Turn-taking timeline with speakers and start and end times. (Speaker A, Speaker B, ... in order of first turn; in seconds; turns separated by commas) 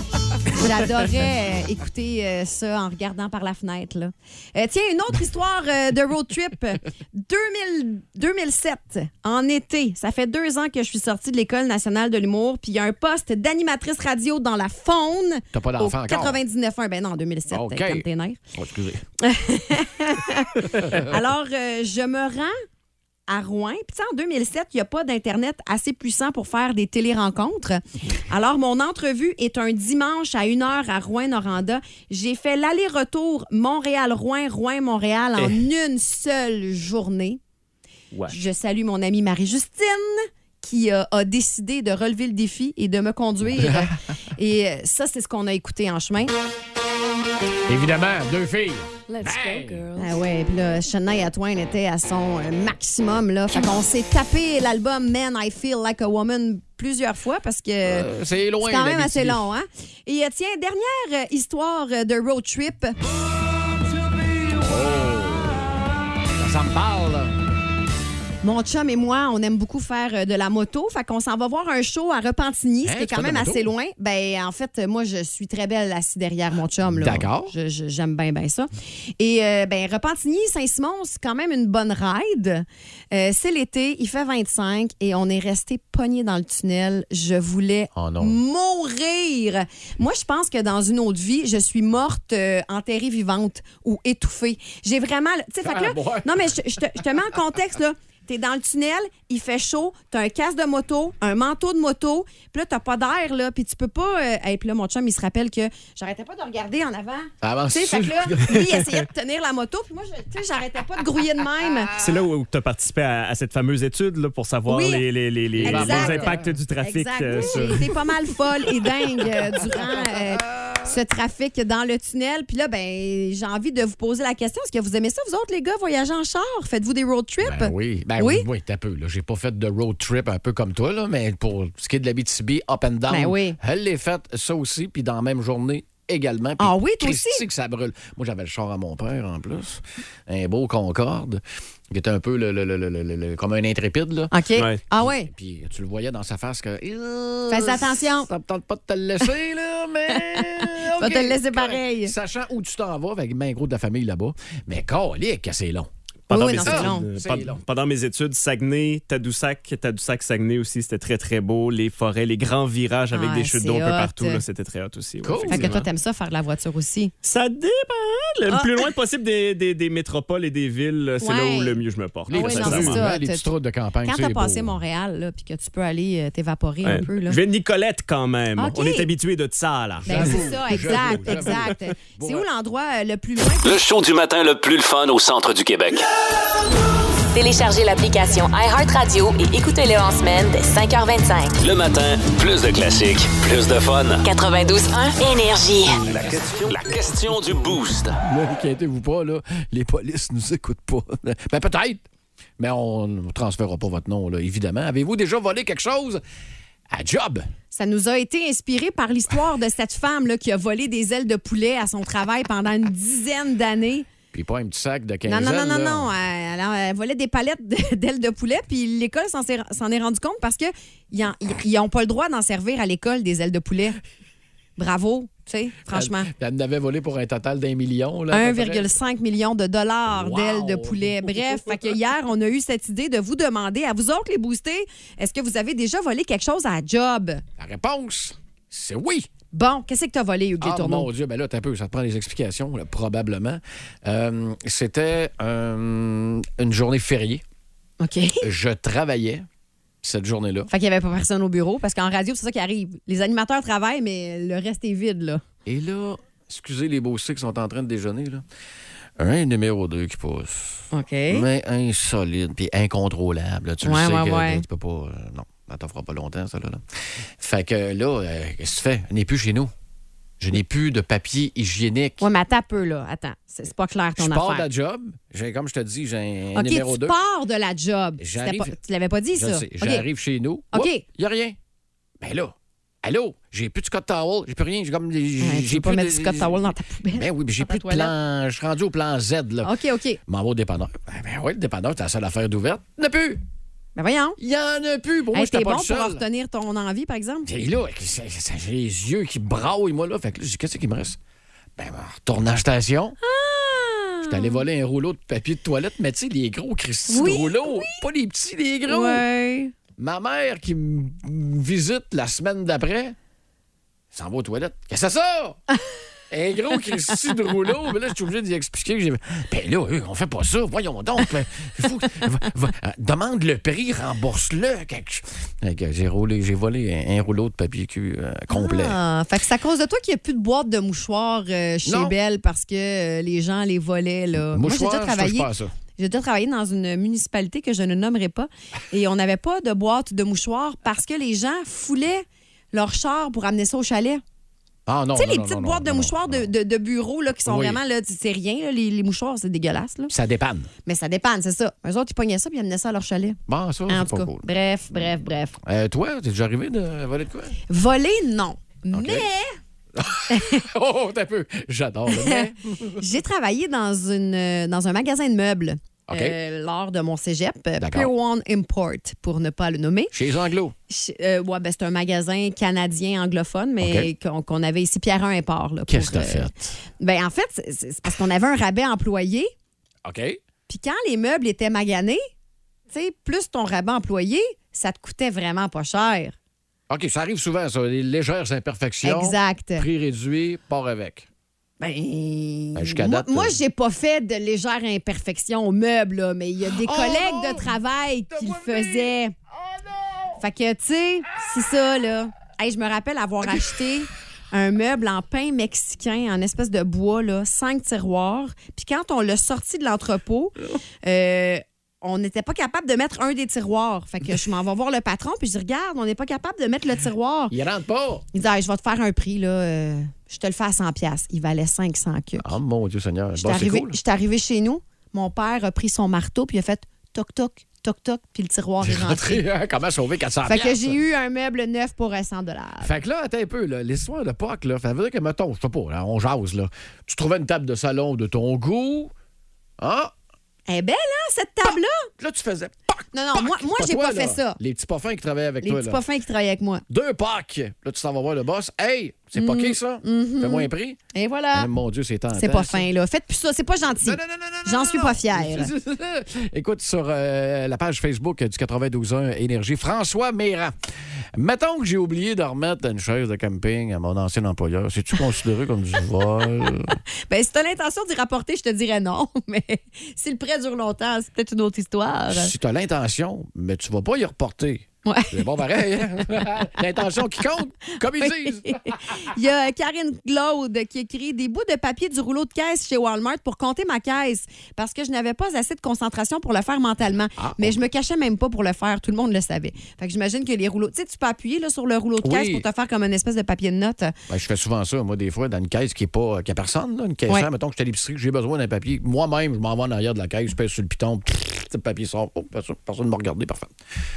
Speaker A: 0.5-18.4, Speaker B: 15.5-16.4, Speaker B: 17.5-19.0, Speaker A: 19.2-22.5, Speaker A: 23.3-37.4, Speaker C: 38.1-38.4, Speaker A: 38.3-46.3, Speaker B: 47.7-49.9, Speaker A: 50.0-58.1, Speaker B: 57.8-59.5, Speaker A: 58.6-63.0, Speaker B: 64.6-65.8, Speaker B: 66.3-67.3, Speaker A: 68.4-112.0, Speaker B: 72.8-73.7, Speaker B: 76.9-77.5, Speaker B: 87.9-88.4, Speaker B: 95.6-96.5, Speaker B: 107.4-108.6, Speaker C: 112.0-117.9, Speaker A: 114.7-115.0, Speaker B: 115.6-116.5, Speaker A: 115.6-128.4, Speaker B: 117.4-117.7, Speaker B: 120.6-120.9, Speaker B: 127.4-144.3, Speaker A: 133.1-133.6, Speaker A: 136.6-137.4, Speaker A: 144.3-145.3, Speaker B: 144.9-155.9, Speaker A: 147.5-148.3, Speaker A: 150.1-152.1, Speaker A: 156.3-157.1, Speaker C: 156.3-165.9, Speaker B: 156.6-157.6, Speaker A: 163.1-164.4, Speaker B: 165.2-165.7, Speaker A: 165.5-167.1, Speaker C: 167.2-173.1, Speaker A: 168.5-168.9, Speaker A: 171.2-171.8, Speaker B: 172.3-174.8, Speaker A: 172.3-173.5, Speaker A: 174.0-177.4, Speaker C: 176.8-181.6, Speaker A: 178.6-179.1, Speaker B: 180.0-182.5, Speaker A: 180.0-183.8, Speaker D: 183.6-186.1, Speaker E: 187.3-191.5, Speaker D: 191.6-194.2, Speaker E: 194.2-196.0, Speaker B: 196.1-196.7, Speaker D: 196.1-198.2, Speaker B: 198.2-202.0, Speaker B: 202.6-206.2, Speaker B: 206.9-207.5, Speaker A: 207.7-214.1, Speaker B: 214.3-216.1, Speaker A: 215.2-224.0, Speaker A: 224.8-226.3, Speaker B: 225.9-228.9, Speaker A: 228.3-237.4, Speaker B: 230.1-231.8, Speaker B: 237.6-239.3, Speaker A: 239.5-241.1, Speaker B: 240.6-247.4, Speaker A: 248.0-248.4, Speaker B: 248.4-249.4, Speaker B: 250.0-250.7, Speaker A: 250.7-255.4, Speaker B: 255.7-258.4, Speaker B: 259.2-266.8, Speaker A: 260.9-261.4, Speaker A: 263.8-264.6, Speaker B: 267.4-269.7, Speaker B: 270.4-272.2, Speaker A: 272.2-274.7, Speaker B: 274.2-277.1, Speaker A: 276.5-280.1, Speaker B: 278.2-278.8, Speaker B: 279.3-281.6, Speaker A: 280.7-281.0, Speaker B: 282.2-289.7, Speaker A: 285.4-288.1, Speaker A: 289.6-290.2, Speaker B: 290.3-293.4, Speaker A: 293.9-294.4, Speaker B: 294.4-296.2, Speaker A: 295.3-297.5, Speaker B: 297.4-301.2, Speaker B: 301.8-303.2, Speaker A: 303.2-304.6, Speaker B: 304.2-309.2, Speaker A: 307.1-308.0, Speaker A: 308.9-309.7, Speaker B: 310.0-313.1, Speaker B: 314.1-315.6, Speaker B: 316.3-329.0, Speaker A: 328.5-344.2, Speaker B: 331.9-332.1, Speaker B: 334.4-335.7, Speaker B: 344.9-346.5, Speaker A: 345.1-350.1, Speaker B: 347.4-347.8, Speaker B: 350.1-350.7, Speaker A: 350.9-355.6, Speaker B: 353.5-354.4, Speaker B: 355.6-357.6, Speaker A: 357.7-359.5, Speaker B: 358.9-359.3, Speaker B: 359.9-363.0, Speaker A: 360.3-360.6, Speaker A: 362.1-370.1, Speaker B: 366.1-366.4, Speaker B: 367.8-368.1, Speaker B: 370.1-370.7, Speaker A: 370.9-379.5, Speaker B: 373.8-374.1, Speaker B: 375.9-376.8, Speaker B: 380.0-380.4, Speaker A: 380.7-382.2, Speaker A: 382.9-386.3, Speaker B: 386.9-391.3, Speaker A: 389.0-389.9, Speaker A: 391.8-399.3, Speaker B: 392.7-393.6, Speaker B: 396.8-397.7, Speaker B: 398.3-399.1, Speaker A: 400.4-417.5, Speaker B: 417.5-418.2, Speaker A: 418.3-422.4, Speaker B: 422.4-424.0, Speaker A: 423.4-429.4, Speaker B: 428.8-430.9, Speaker A: 430.4-432.9, Speaker B: 432.8-439.1, Speaker B: 439.8-440.1, Speaker A: 440.7-442.1, Speaker B: 442.2-446.0, Speaker A: 443.1-444.6, Speaker A: 445.6-446.8, Speaker B: 446.9-451.0, Speaker A: 449.3-451.7, Speaker B: 451.5-452.9, Speaker A: 452.3-455.7, Speaker B: 454.0-460.7, Speaker B: 461.4-467.0, Speaker A: 467.3-472.5, Speaker B: 472.3-478.8, Speaker A: 475.0-475.4, Speaker A: 478.2-494.1, Speaker B: 487.4-487.8, Speaker B: 492.2-492.6, Speaker B: 494.3-503.7